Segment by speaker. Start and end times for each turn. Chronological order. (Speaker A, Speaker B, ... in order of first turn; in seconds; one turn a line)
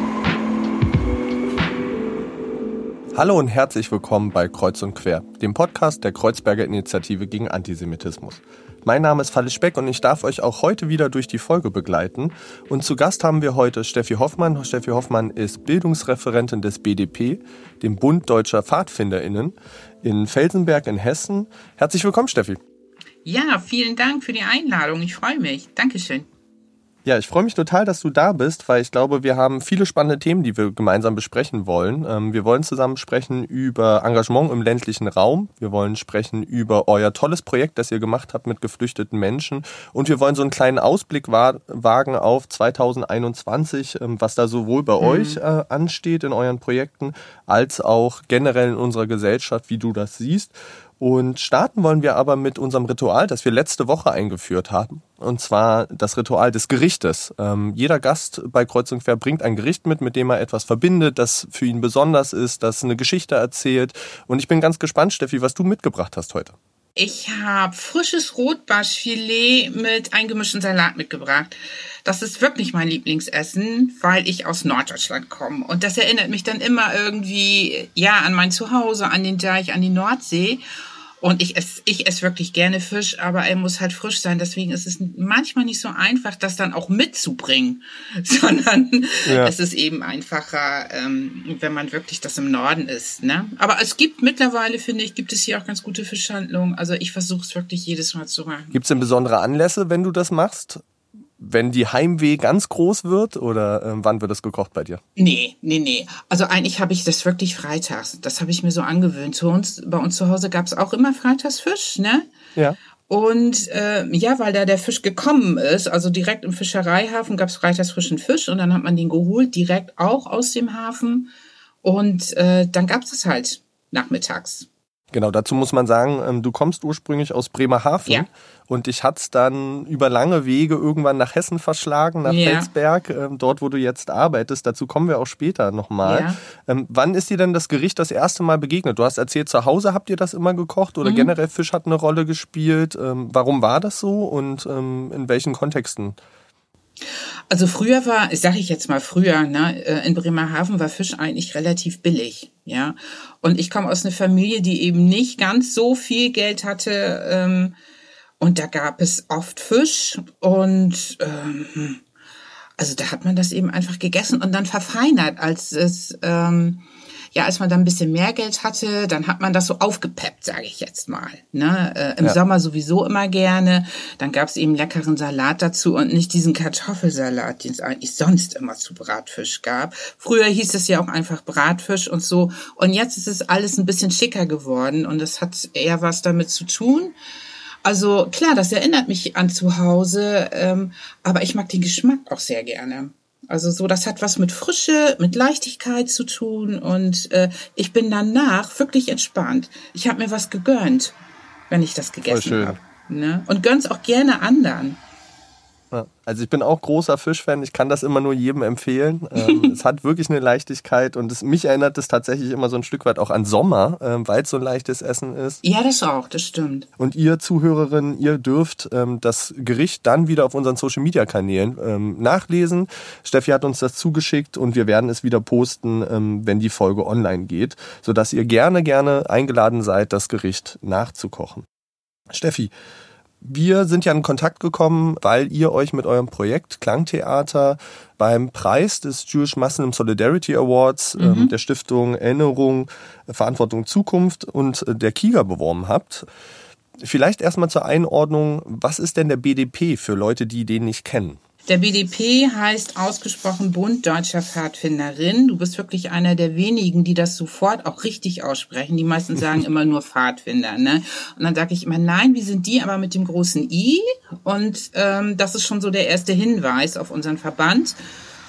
Speaker A: 3.1-22.6
Speaker B: 23.2-26.3
Speaker A: 27.1-66.6
Speaker B: 45.0-45.4
Speaker B: 67.0-80.6
Speaker B: 81.2-99.0
Speaker A: 89.3-89.5
Speaker A: 98.7-100.8
Speaker A: 101.4-105.0
Speaker B: 105.2-112.3
Speaker B: 113.1-121.3
Speaker B: 121.8-124.7
Speaker A: 125.1-146.2
Speaker B: 132.2-132.7
Speaker B: 136.0-136.4
Speaker B: 141.0-141.3
Speaker B: 147.5-157.7
Speaker B: 158.4-162.0
Speaker B: 162.8-187.2
Speaker B: 187.8-201.2
Speaker B: 201.7-205.0
Speaker A: 202.2-202.8
Speaker A: 205.9-215.6
Speaker B: 209.4-209.7
Speaker B: 215.6-216.9
Speaker A: 217.0-231.7
Speaker A: 232.3-232.7
Speaker A: 233.4-246.3
Speaker B: 241.2-241.5
Speaker A: 247.0-251.4
Speaker B: 251.7-268.0